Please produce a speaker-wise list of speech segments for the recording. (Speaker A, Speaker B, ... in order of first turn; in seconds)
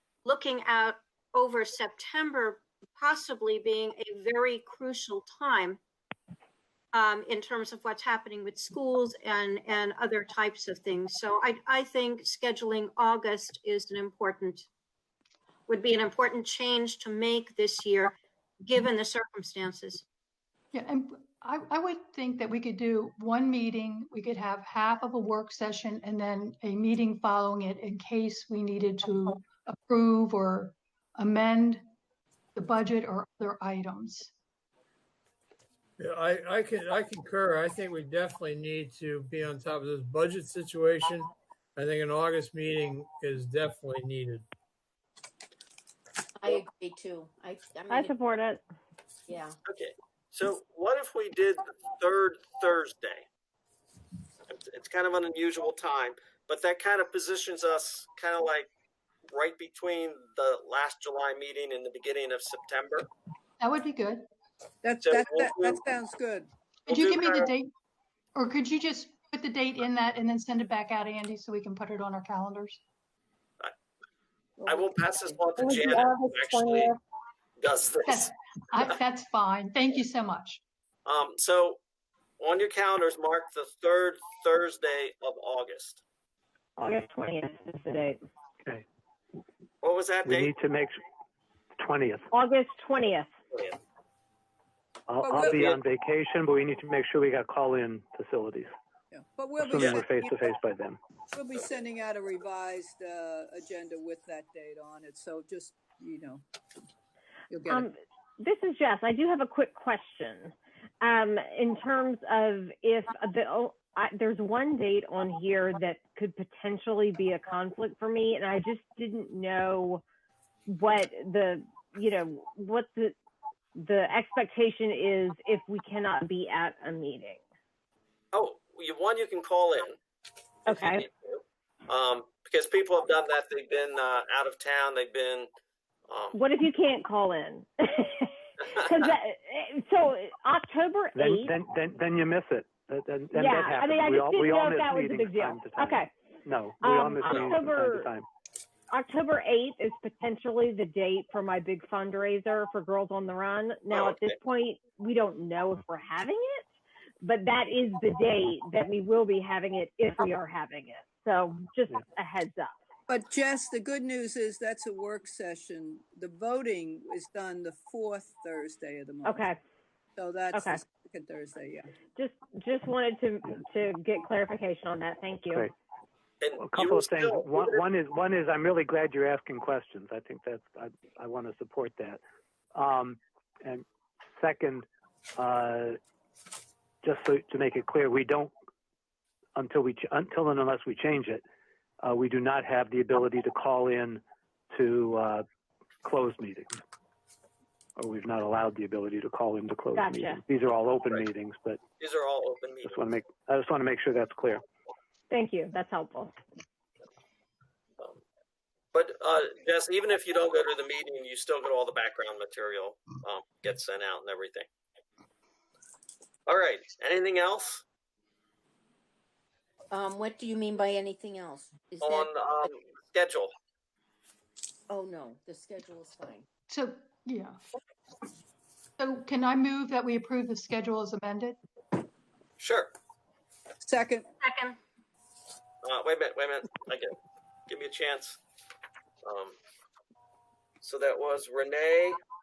Speaker A: 0.2-5.8, 6.9-14.7, 15.7-20.0, 234.4-234.8
Speaker B: 20.7-31.8, 32.6-34.3, 63.6-64.2, 66.9-67.7, 68.3-72.8, 78.0-80.6, 226.7-227.6, 229.0-231.6
Speaker C: 36.0-44.5
Speaker D: 46.4-48.1, 49.3-49.6, 219.9-222.7, 224.9-226.5
Speaker E: 47.9-48.6, 86.8-88.2, 92.3-93.3, 107.7-120.0, 120.7-123.2, 123.8-127.4, 130.7-131.1, 136.3-141.5, 143.3-146.1, 146.8-148.1, 148.9-156.7, 157.2-162.7, 169.2-169.6, 170.5-170.8, 172.2-175.7, 200.0-200.4, 205.3-206.3
Speaker F: 49.7-53.2, 54.5-58.7, 59.3-63.1, 65.0-65.8, 66.9-67.5, 74.7-76.9, 77.6-78.3, 81.1-81.8, 82.4-86.0, 89.8-90.5, 93.5-93.8, 95.4-95.8, 99.8-100.0, 128.3-130.0, 130.7-135.5, 136.1-136.4, 153.9-154.3, 176.4-177.8, 202.0-203.0, 208.9-214.7, 216.5-217.8, 222.0-223.5, 232.6-232.9, 235.8-237.1, 237.7-238.4, 239.2-239.6, 240.8-242.2
Speaker G: 64.8-66.5, 95.2-95.8, 99.1-100.4, 101.3-106.4, 107.5-107.9, 163.1-169.5, 170.2-171.9, 233.8-234.3
Speaker H: 90.2-91.0, 91.8-92.3, 95.1-98.7, 99.6-101.0, 141.2-148.3, 176.6-182.2, 182.7-183.8, 184.4-184.9, 185.4-186.0, 187.0-188.5, 189.6-191.4, 192.0-195.4, 196.0-196.8, 198.0-201.8, 202.8-204.6